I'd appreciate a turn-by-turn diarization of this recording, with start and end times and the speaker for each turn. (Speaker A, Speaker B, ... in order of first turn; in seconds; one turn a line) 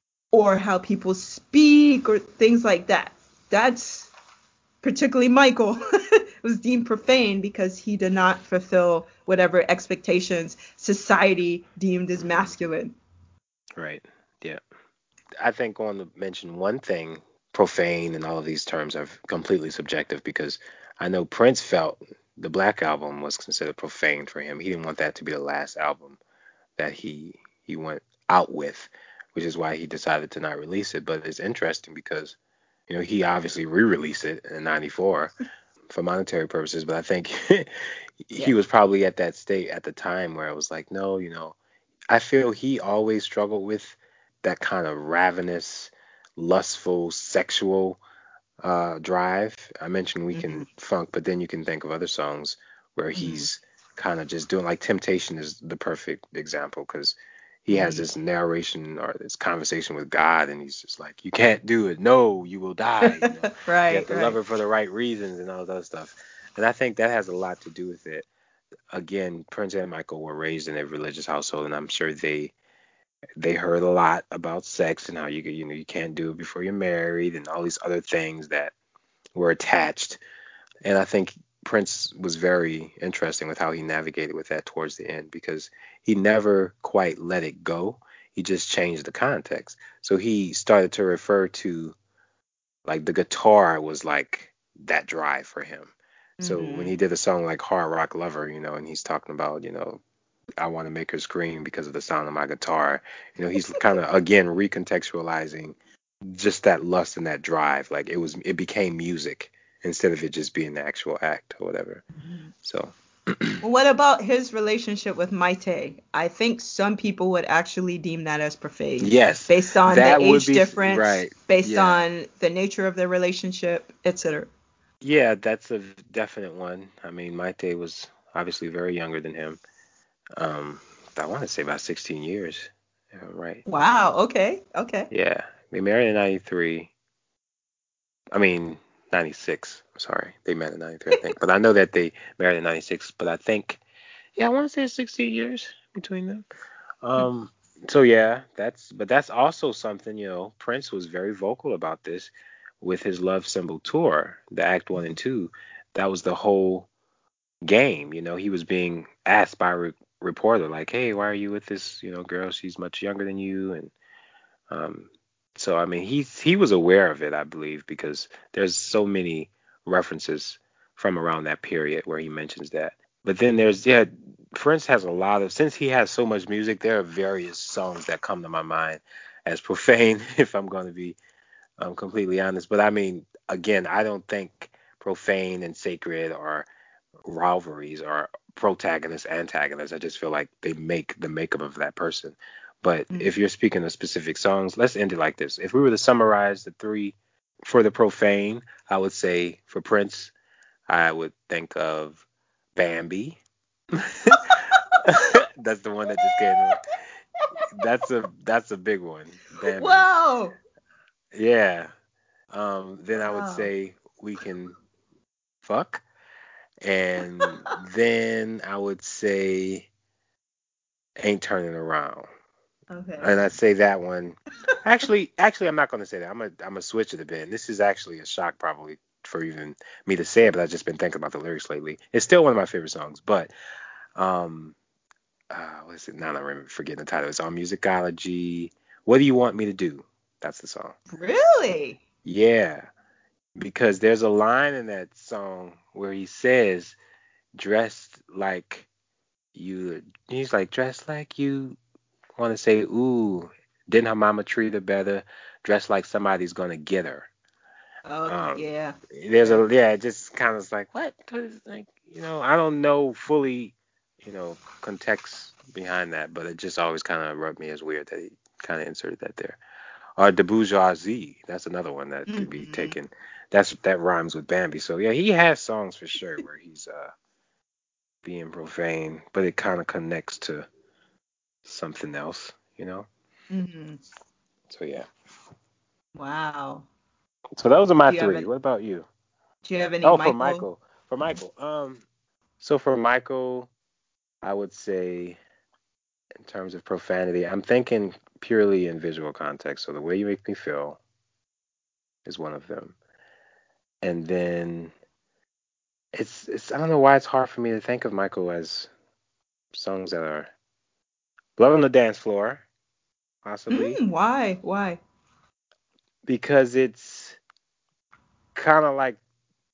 Speaker A: 0.3-4.1
Speaker A: 4.8-13.0
Speaker B: 12.2-12.5
Speaker B: 13.8-14.6
Speaker B: 15.4-26.2
Speaker B: 26.8-32.4
Speaker B: 32.9-35.3
Speaker B: 35.9-41.6
Speaker B: 42.1-48.0
Speaker B: 48.6-68.3
Speaker A: 50.3-50.6
Speaker A: 53.2-53.5
Speaker A: 57.7-58.1
Speaker A: 63.0-64.4
Speaker B: 68.9-72.5
Speaker B: 73.4-78.7
Speaker B: 79.3-80.2
Speaker B: 80.8-92.0
Speaker B: 92.9-95.9
Speaker A: 96.4-97.0
Speaker B: 96.4-100.0
Speaker B: 100.6-112.0
Speaker B: 112.6-113.6
Speaker A: 113.6-124.5
Speaker B: 119.0-122.0
Speaker B: 125.0-129.6
Speaker B: 130.4-133.6
Speaker A: 133.7-135.1
Speaker B: 135.1-136.9
Speaker B: 138.3-143.8
Speaker B: 144.4-146.5
Speaker B: 147.0-156.9
Speaker B: 157.6-163.9
Speaker B: 164.7-181.2
Speaker B: 181.8-186.7
Speaker B: 187.2-200.3
Speaker B: 200.9-202.2
Speaker B: 202.8-203.4
Speaker B: 203.9-204.5
Speaker A: 204.4-205.2
Speaker B: 205.1-206.8
Speaker A: 206.1-206.6
Speaker B: 207.8-210.1
Speaker A: 209.6-210.6
Speaker B: 211.3-211.9
Speaker B: 212.5-214.7
Speaker A: 213.2-213.7
Speaker B: 215.6-216.0
Speaker B: 216.8-219.9
Speaker A: 217.4-217.7
Speaker B: 221.2-222.3
Speaker A: 222.9-223.3
Speaker B: 223.2-233.5
Speaker B: 234.2-234.8
Speaker B: 235.5-240.9
Speaker A: 241.1-242.0
Speaker B: 242.2-242.8
Speaker B: 243.6-247.0
Speaker B: 247.6-248.9
Speaker B: 249.6-251.8
Speaker B: 252.4-257.3
Speaker A: 258.1-259.6
Speaker B: 258.3-269.6
Speaker B: 270.2-277.1
Speaker A: 272.3-273.0
Speaker B: 278.2-280.7
Speaker B: 281.6-283.1
Speaker A: 283.5-284.0
Speaker B: 284.7-285.1
Speaker A: 286.1-286.9
Speaker B: 287.6-289.1
Speaker A: 288.1-288.5
Speaker A: 289.7-290.6
Speaker B: 290.0-292.0
Speaker B: 292.6-293.7
Speaker B: 294.4-295.4
Speaker B: 296.4-301.0
Speaker B: 302.2-303.0
Speaker B: 304.0-304.9
Speaker B: 306.1-308.9
Speaker B: 309.7-310.5
Speaker B: 311.6-312.6
Speaker B: 313.4-314.0
Speaker A: 313.7-315.0
Speaker B: 316.3-317.4
Speaker B: 318.6-319.2